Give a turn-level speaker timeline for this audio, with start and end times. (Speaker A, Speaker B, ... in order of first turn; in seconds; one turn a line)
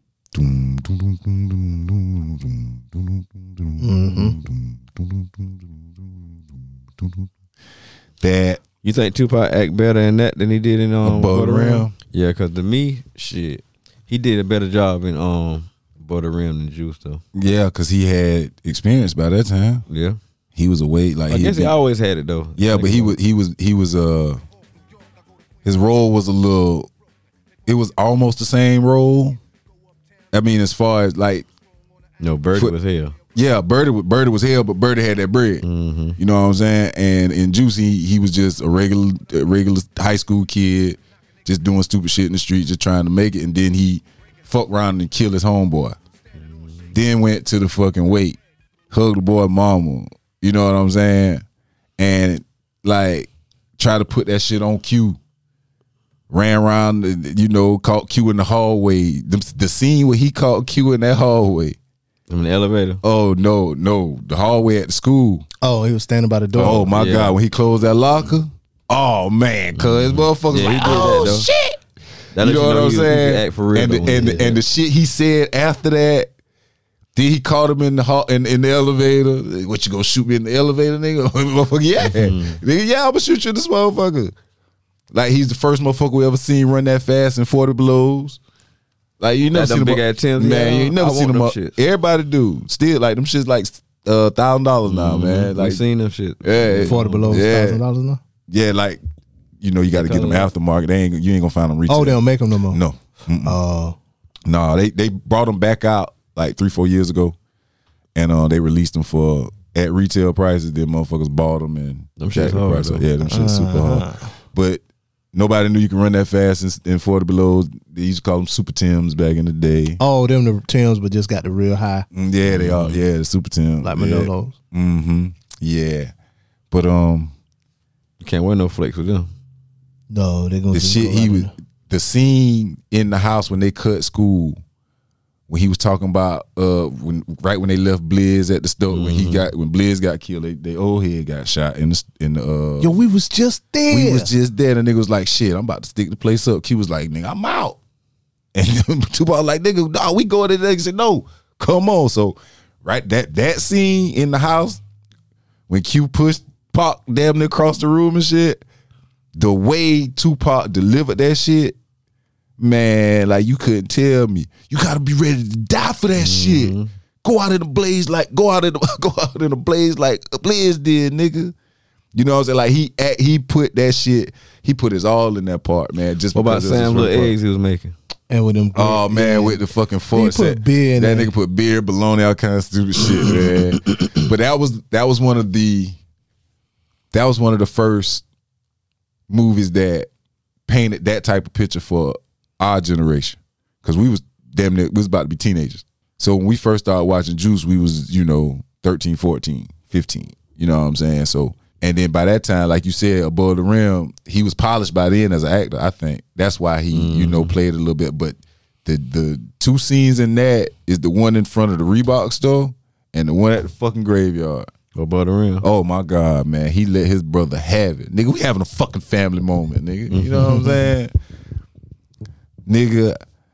Speaker A: 0.3-6.3
Speaker B: 3.8-4.4
Speaker A: 7.0-7.3
Speaker A: 8.2-8.6
Speaker C: 8.8-17.2
Speaker A: 11.0-11.9
Speaker A: 17.3-19.9
Speaker C: 19.9-20.2
Speaker A: 20.6-21.8
Speaker C: 21.3-23.2
Speaker A: 22.6-24.4
Speaker A: 25.6-26.9
Speaker A: 27.7-29.4
Speaker A: 30.3-31.5
Speaker C: 32.2-33.2
Speaker A: 33.4-35.6
Speaker C: 35.6-36.2
Speaker A: 36.2-46.0
Speaker C: 46.4-46.9
Speaker A: 46.9-48.4
Speaker A: 48.9-51.4
Speaker A: 52.0-55.2
Speaker A: 56.3-61.8
Speaker C: 62.3-63.0
Speaker A: 63.0-65.5
Speaker B: 65.6-66.9
Speaker C: 66.5-67.4
Speaker A: 66.6-71.8
Speaker C: 69.8-71.5
Speaker C: 72.3-74.6
Speaker A: 72.4-76.3
Speaker A: 77.1-84.3
Speaker C: 82.0-82.6
Speaker A: 85.1-88.4
Speaker A: 89.2-95.8
Speaker C: 89.5-91.8
Speaker C: 94.9-97.4
Speaker A: 96.4-97.8
Speaker B: 96.8-98.2
Speaker A: 98.5-99.0
Speaker A: 99.6-103.6
Speaker C: 99.9-100.5
Speaker B: 101.9-102.8
Speaker B: 103.4-104.0
Speaker A: 104.5-107.4
Speaker A: 108.1-120.0
Speaker C: 112.2-113.1
Speaker B: 113.2-114.3
Speaker B: 120.0-122.1
Speaker A: 122.1-126.1
Speaker C: 122.5-123.0
Speaker B: 123.8-124.5
Speaker A: 126.7-127.3
Speaker C: 128.2-129.3
Speaker B: 130.1-131.5
Speaker A: 130.7-134.6
Speaker A: 135.5-143.0
Speaker C: 138.9-139.4
Speaker B: 142.8-144.3
Speaker A: 143.9-147.8
Speaker A: 148.5-154.8
Speaker A: 155.7-158.6
Speaker A: 159.4-161.8
Speaker A: 162.6-171.5
Speaker C: 166.2-166.9
Speaker A: 172.1-177.3
Speaker C: 176.3-177.9
Speaker B: 178.3-181.3
Speaker A: 178.8-186.0
Speaker A: 187.1-188.2
Speaker A: 189.3-190.1
Speaker A: 190.7-214.7
Speaker C: 206.9-207.5
Speaker C: 214.9-215.7
Speaker A: 215.6-221.1
Speaker C: 220.1-220.8
Speaker A: 222.7-223.2